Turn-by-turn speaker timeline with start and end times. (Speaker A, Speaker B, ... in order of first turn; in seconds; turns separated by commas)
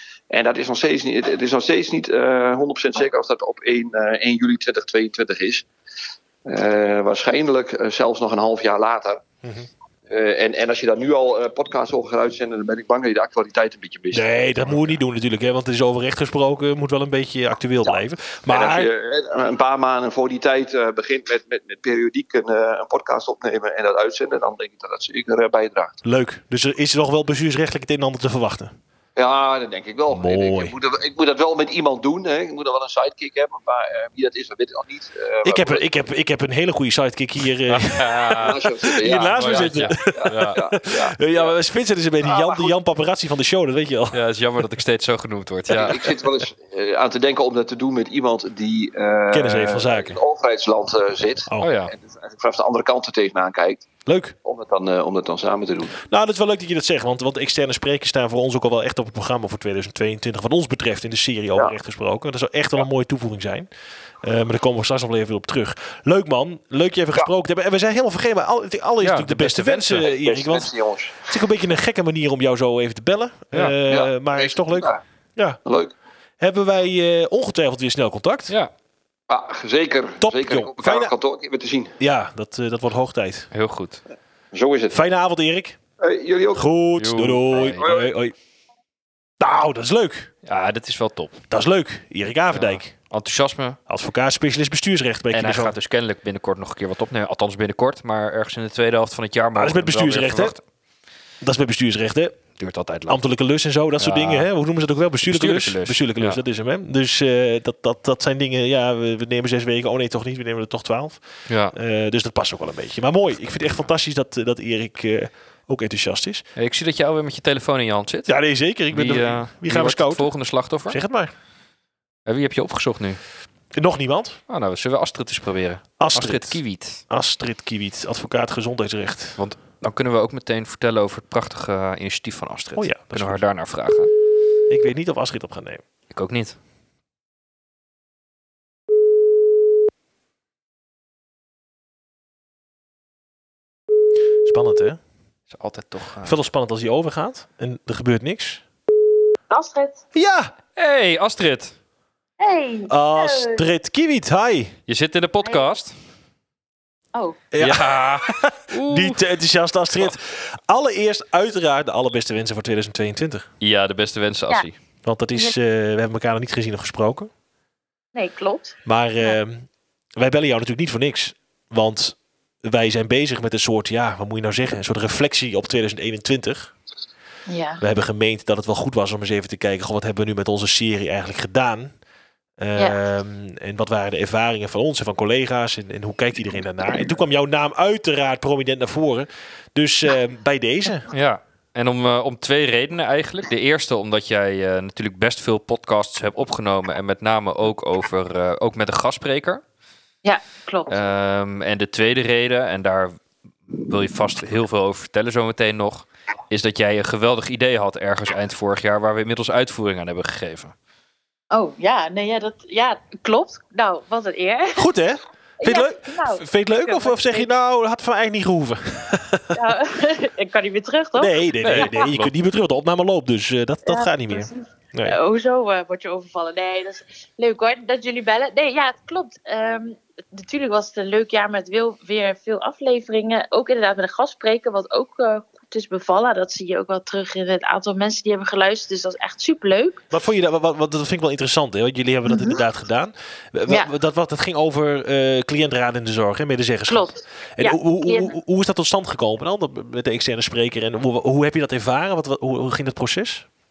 Speaker A: 0.3-5.7, Speaker A: 6.5-9.2, Speaker B: 9.4-9.7, Speaker A: 10.1-14.9, Speaker B: 14.1-18.9, Speaker A: 17.8-25.9, Speaker B: 26.0-28.8, Speaker A: 29.1-35.8, Speaker B: 30.1-30.7, Speaker B: 35.4-44.2, Speaker C: 37.7-40.7, Speaker A: 38.4-41.5, Speaker A: 42.2-42.7, Speaker C: 44.1-46.1, Speaker A: 45.7-53.9, Speaker B: 49.3-50.2, Speaker C: 51.6-51.9, Speaker B: 54.0-54.3, Speaker A: 54.4-56.0, Speaker B: 56.0-63.7, Speaker B: 64.2-70.7, Speaker C: 69.0-70.1, Speaker A: 70.0-71.2, Speaker B: 71.2-75.6, Speaker A: 73.9-75.0, Speaker A: 75.6-75.9, Speaker B: 76.4-78.5, Speaker A: 79.3-82.0, Speaker B: 80.2-81.1, Speaker B: 82.0-83.5, Speaker C: 83.5-84.0, Speaker A: 84.5-85.0, Speaker B: 84.9-85.8, Speaker A: 86.0-86.6, Speaker B: 86.5-88.3, Speaker C: 87.0-87.8, Speaker A: 87.5-88.1, Speaker B: 89.4-90.3, Speaker C: 90.4-91.4, Speaker B: 91.5-92.9, Speaker C: 92.5-93.8, Speaker B: 93.9-95.7, Speaker C: 95.3-100.6, Speaker B: 99.5-100.5, Speaker B: 101.4-116.5, Speaker C: 102.6-103.2, Speaker C: 104.0-104.5, Speaker C: 105.2-106.4, Speaker C: 111.5-111.8, Speaker C: 113.3-113.7, Speaker C: 116.5-121.0, Speaker B: 118.3-121.3, Speaker C: 122.2-123.2, Speaker B: 123.7-124.4, Speaker C: 124.5-127.0, Speaker B: 126.0-129.4, Speaker C: 129.4-134.1, Speaker B: 132.8-133.4, Speaker B: 134.7-135.8, Speaker C: 136.1-136.6, Speaker B: 144.4-145.0, Speaker C: 145.5-146.4, Speaker B: 146.2-148.6, Speaker D: 149.5-150.0, Speaker B: 150.1-150.5, Speaker C: 150.8-151.7, Speaker D: 152.4-153.6, Speaker B: 152.9-154.8, Speaker C: 154.9-155.9, Speaker B: 157.5-163.5, Speaker C: 157.6-159.2, Speaker C: 163.6-164.7, Speaker B: 165.0-167.3, Speaker D: 168.1-169.4, Speaker B: 168.8-176.7, Speaker D: 177.5-177.8, Speaker B: 177.8-182.0, Speaker B: 182.6-191.1, Speaker C: 191.1-199.6, Speaker D: 200.2-201.0, Speaker C: 200.9-210.7, Speaker D: 211.5-214.9, Speaker B: 214.7-219.6, Speaker D: 215.6-217.5, Speaker D: 219.5-222.0, Speaker B: 221.2-225.2, Speaker C: 221.6-222.3, Speaker D: 223.8-240.0, Speaker B: 240.1-253.5, Speaker D: 242.3-242.6, Speaker D: 246.9-248.3